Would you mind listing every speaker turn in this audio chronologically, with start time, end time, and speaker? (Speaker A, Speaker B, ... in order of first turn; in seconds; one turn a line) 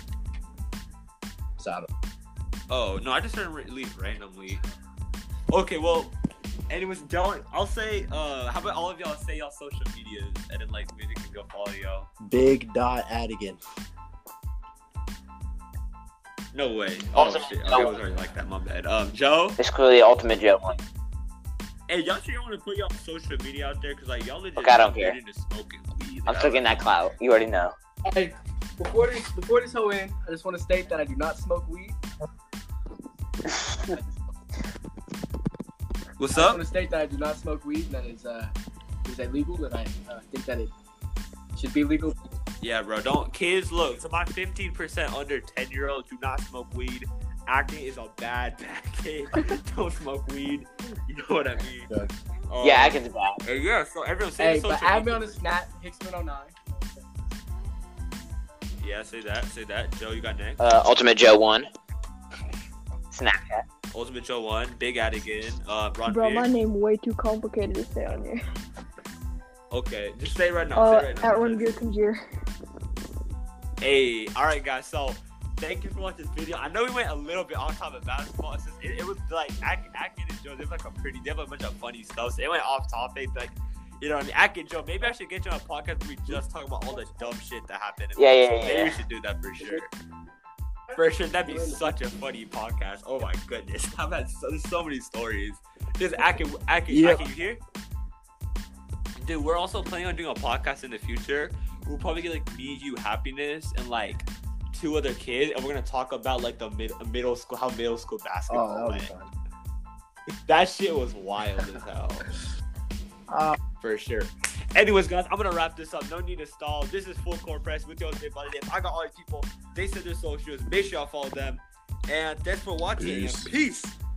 Speaker A: 1.6-1.9
Speaker B: 2.7-4.6
Speaker B: 5.5-6.1
Speaker B: 6.7-12.1
Speaker A: 12.2-13.6
Speaker B: 16.5-19.6
Speaker C: 17.1-17.9
Speaker C: 19.6-20.8
Speaker B: 21.9-26.8
Speaker C: 24.6-25.1
Speaker C: 26.3-27.7
Speaker D: 28.1-32.0
Speaker B: 36.2-36.6
Speaker D: 36.3-40.7
Speaker D: 41.5-42.1
Speaker B: 42.6-51.9
Speaker A: 51.9-52.1
Speaker B: 52.5-55.4
Speaker C: 52.6-53.4
Speaker D: 54.4-57.1
Speaker B: 58.8-60.6
Speaker C: 60.6-61.7
Speaker C: 63.1-63.6
Speaker B: 63.9-66.5
Speaker E: 66.0-68.4
Speaker B: 69.7-71.8
Speaker E: 70.7-72.2
Speaker B: 73.8-89.9
Speaker C: 88.2-89.0
Speaker B: 90.9-97.6
Speaker A: 96.9-97.2
Speaker B: 99.2-109.1
Speaker A: 108.5-109.3
Speaker B: 110.5-112.3
Speaker A: 113.3-113.6
Speaker B: 113.8-123.9
Speaker A: 123.0-123.5